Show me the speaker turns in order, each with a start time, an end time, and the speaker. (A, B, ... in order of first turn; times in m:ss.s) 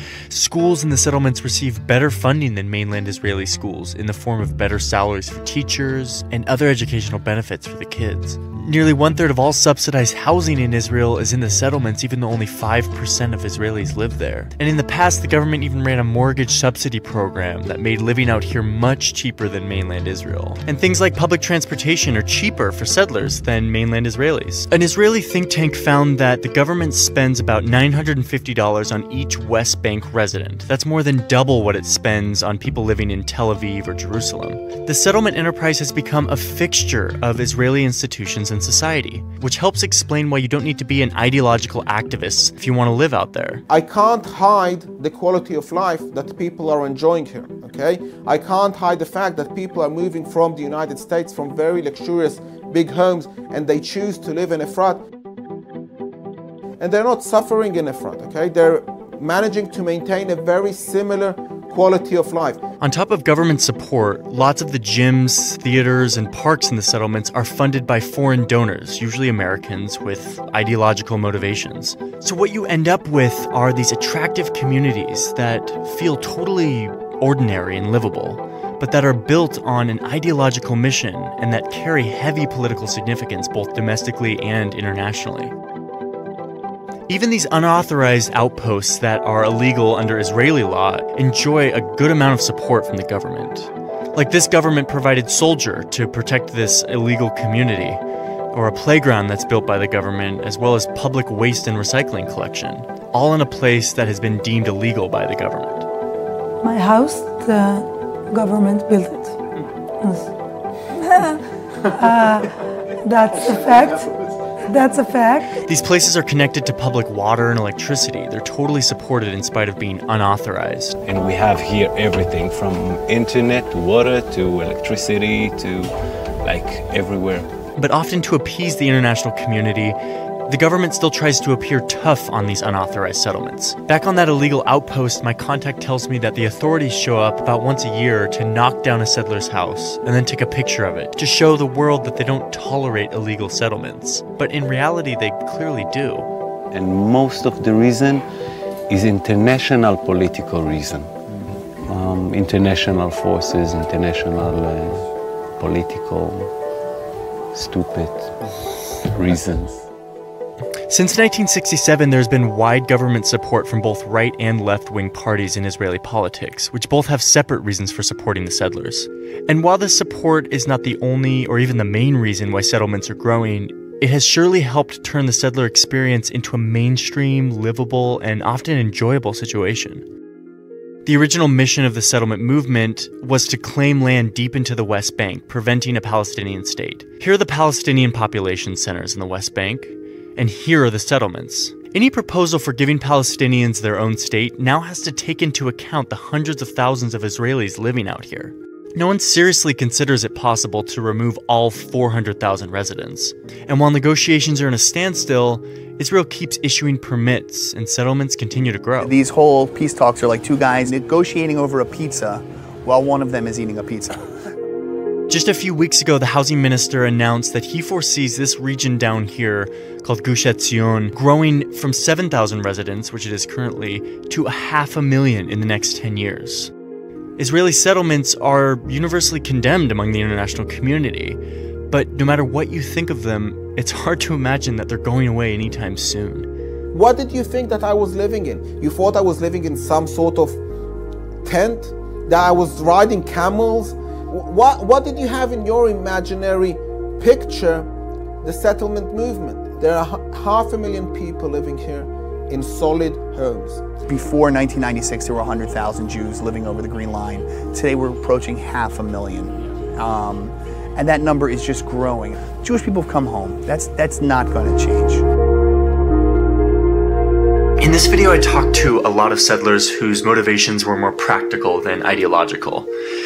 0:00.3-0:43.6 A
0:43.7-0:55.0 B
0:56.8-1:02.6 B
1:02.8-1:25.5 A
1:27.1-1:38.0 A
1:38.5-1:45.9 A
1:46.6-1:49.3 C
1:51.9-1:52.5 C
1:53.0-1:54.1 C
1:54.7-1:55.5 C
1:55.6-2:01.0 A
2:01.0-2:05.9 D
2:06.5-2:07.5 D
2:07.8-2:26.3 A
2:26.7-2:28.2 D
2:28.9-2:31.1 D
2:31.9-2:35.0 D
2:35.6-2:36.5 D
2:37.5-2:38.4 D
2:39.1-2:39.8 D
2:40.9-3:00.0 A
3:01.0-3:29.2 A
3:29.0-3:34.2 E
3:35.3-3:46.7 A
3:47.4-3:56.5 A
3:56.9-4:00.6 B
4:01.4-4:07.9 B
4:08.4-4:13.8 B
4:14.1-4:25.2 E
4:27.8-4:32.9 A